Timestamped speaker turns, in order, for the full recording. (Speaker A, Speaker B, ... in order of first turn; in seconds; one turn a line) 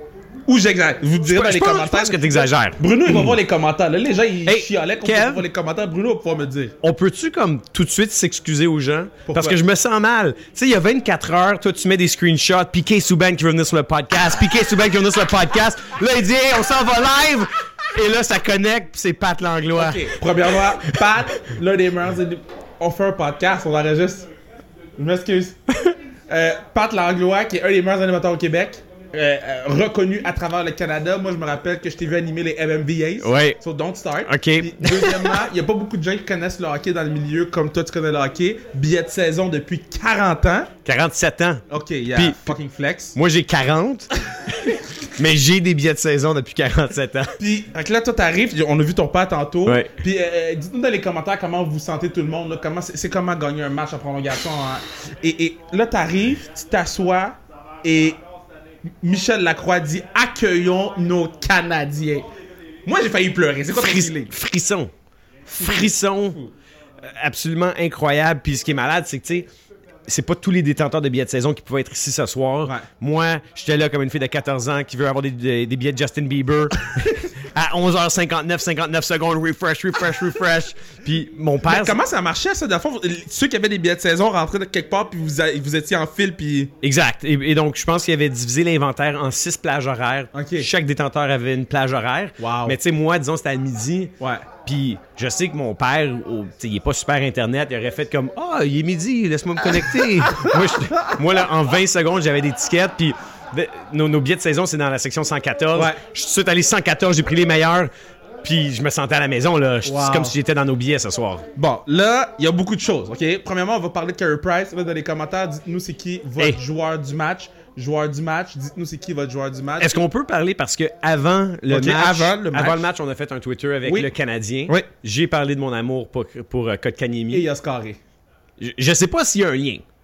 Speaker A: 0.5-6.7
Speaker B: 1.2-3.3
Speaker B: 4.5-5.4
Speaker B: 6.8-20.2
Speaker A: 9.3-9.6
Speaker A: 19.7-24.3
Speaker A: 25.0-25.6
Speaker A: 26.3-40.7
Speaker B: 33.2-33.6
Speaker B: 34.2-35.4
Speaker B: 40.8-41.6
Speaker A: 41.7-43.1
Speaker B: 42.1-42.5
Speaker B: 43.1-44.1
Speaker B: 44.6-47.4
Speaker A: 47.4-58.2
Speaker B: 49.6-49.9
Speaker A: 59.0-62.2
Speaker A: 62.9-64.3
Speaker B: 63.7-64.9
Speaker B: 65.5-66.4
Speaker A: 65.5-66.5
Speaker B: 67.0-69.5
Speaker B: 70.1-82.0
Speaker A: 81.7-86.7
Speaker B: 86.8-107.9
Speaker A: 90.3-90.7
Speaker A: 92.4-92.8
Speaker A: 94.2-94.5
Speaker A: 100.2-101.1
Speaker A: 105.7-106.0
Speaker B: 108.4-111.4
Speaker A: 109.8-110.3
Speaker A: 111.5-120.0
Speaker B: 119.8-127.5
Speaker A: 121.7-122.9
Speaker A: 123.8-124.1
Speaker A: 127.3-128.0
Speaker B: 128.6-129.8